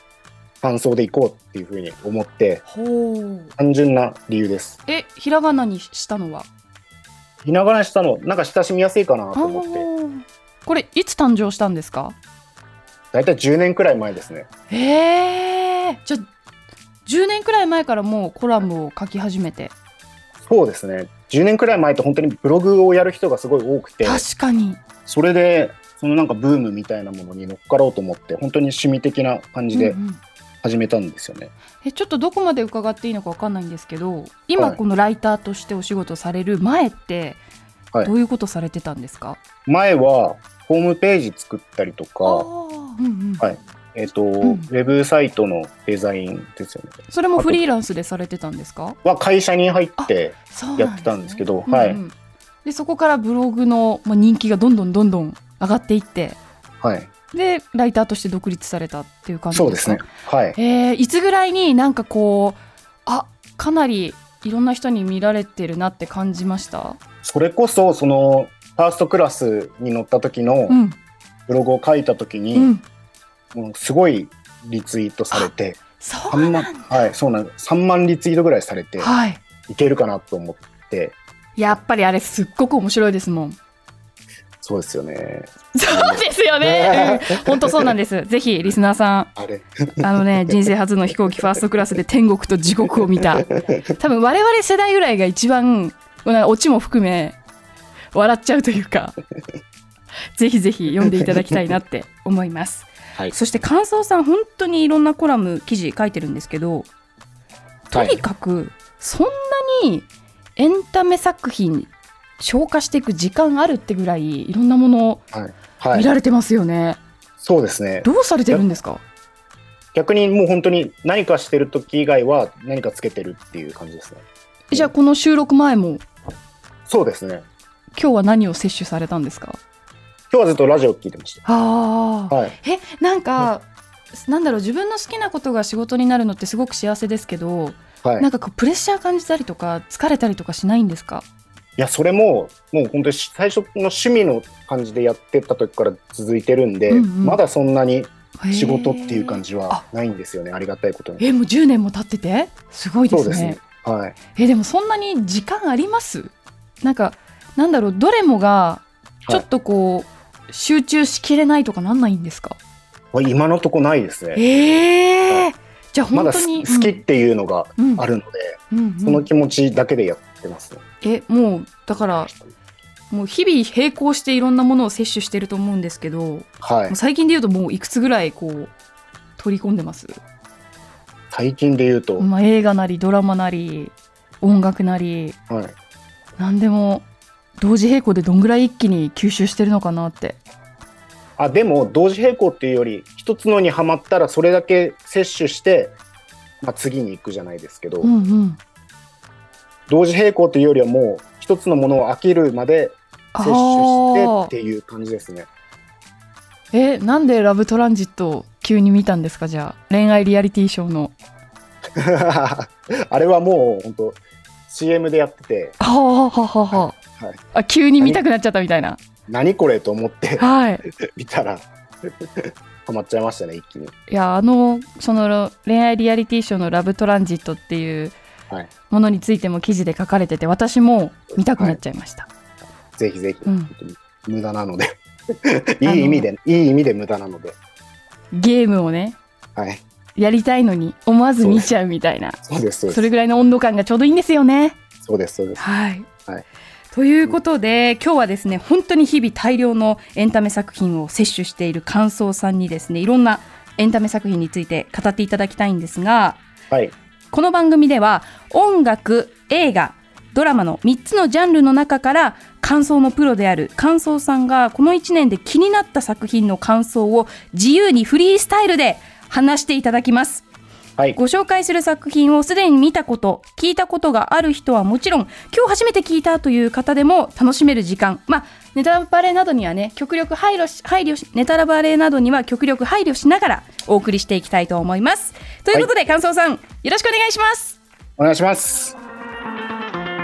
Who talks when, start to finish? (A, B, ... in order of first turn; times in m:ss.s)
0:00.6-0:02.6 A
0:02.7-0:03.5 B
0:03.6-0:04.8 A
0:04.9-0:06.5 B
0:07.4-0:09.8 A
0:09.3-0:12.2 B
0:13.1-0:14.5 A
0:14.7-0:16.2 B
0:17.0-0:19.7 B
0:20.4-0:24.2 A
0:24.0-0:24.8 B
0:25.0-0:30.0 A
0:29.7-0:30.2 B
0:30.6-0:31.5 A
0:31.8-0:37.4 B
0:38.0-0:39.4 B
0:39.6-0:42.5 A
0:42.2-0:43.4 B
0:43.4-0:47.6 A
0:44.4-0:44.6 B
0:47.1-0:49.0 B
0:49.0-0:52.0 A
0:50.0-0:52.1 B
0:52.6-0:56.4 B
0:56.8-0:57.1 A
0:57.3-1:07.0 B
0:59.5-1:00.6 A
1:07.2-1:10.8 A
1:10.7-1:11.0 B
1:11.5-1:12.7 A
1:12.5-1:12.8 B
1:13.5-1:19.1 A
1:15.3-1:17.0 B
1:19.0-1:19.4 B
1:19.7-1:21.2 A
1:21.6-1:23.6 B
1:24.6-1:27.9 A
1:25.7-1:29.3 B
1:29.4-1:30.5 A
1:30.0-1:37.4 B
1:33.2-1:33.8 A
1:38.1-1:39.2 B
1:40.4-1:46.9 B
1:47.9-1:55.2 B
1:47.9-1:48.2 A
1:55.3-1:56.1 A
1:55.9-1:57.0 B
1:57.4-1:58.8 A
1:58.0-1:59.0 B
1:59.9-2:04.9 A
2:04.7-2:06.0 B
2:06.9-2:07.4 A
2:08.0-2:09.6 B
2:10.3-2:11.4 A
2:11.4-2:21.2 B
2:12.3-2:12.6 A
2:21.8-2:31.2 A
2:26.9-2:27.4 B
2:28.4-2:29.8 B
2:31.2-2:33.6 B
2:33.1-2:34.2 A
2:34.4-2:42.6 B
2:43.1-2:44.4 A
2:44.3-2:47.0 B
2:46.1-2:50.8 A
2:47.8-2:48.0 B
2:48.7-2:49.3 B
2:51.0-2:52.3 B
2:53.1-2:58.7 B
2:56.6-2:57.0 A
2:59.4-3:00.2 B
3:01.3-3:02.3 A
3:02.2-3:05.4 B
3:05.5-3:05.7 A
3:06.4-3:07.0 B
3:07.6-3:10.4 B
3:11.4-3:16.0 A
3:16.6-3:18.1 A
3:18.0-3:18.6 B
3:19.9-3:25.5 A
3:23.3-3:24.5 B
3:26.7-3:31.1 B
3:32.0-3:35.8 A
3:35.8-3:37.0 B
3:36.7-3:37.4 A
3:37.5-3:39.0 B
3:39.3-3:43.9 A
3:40.4-3:40.8 B
3:44.1-3:48.1 B
3:48.9-3:52.3 B
3:53.0-3:57.6 A
3:53.4-3:53.7 B
3:55.8-3:56.3 B
3:58.3-3:59.2 B
3:59.6-3:59.8 A
4:00.2-4:04.8 B
4:01.4-4:01.7 A
4:02.4-4:03.1 A
4:05.0-4:05.6 A
4:05.6-4:06.1 B
4:06.9-4:16.4 B
4:17.3-4:30.4 B
4:31.2-4:47.8 B
4:48.2-4:49.0 A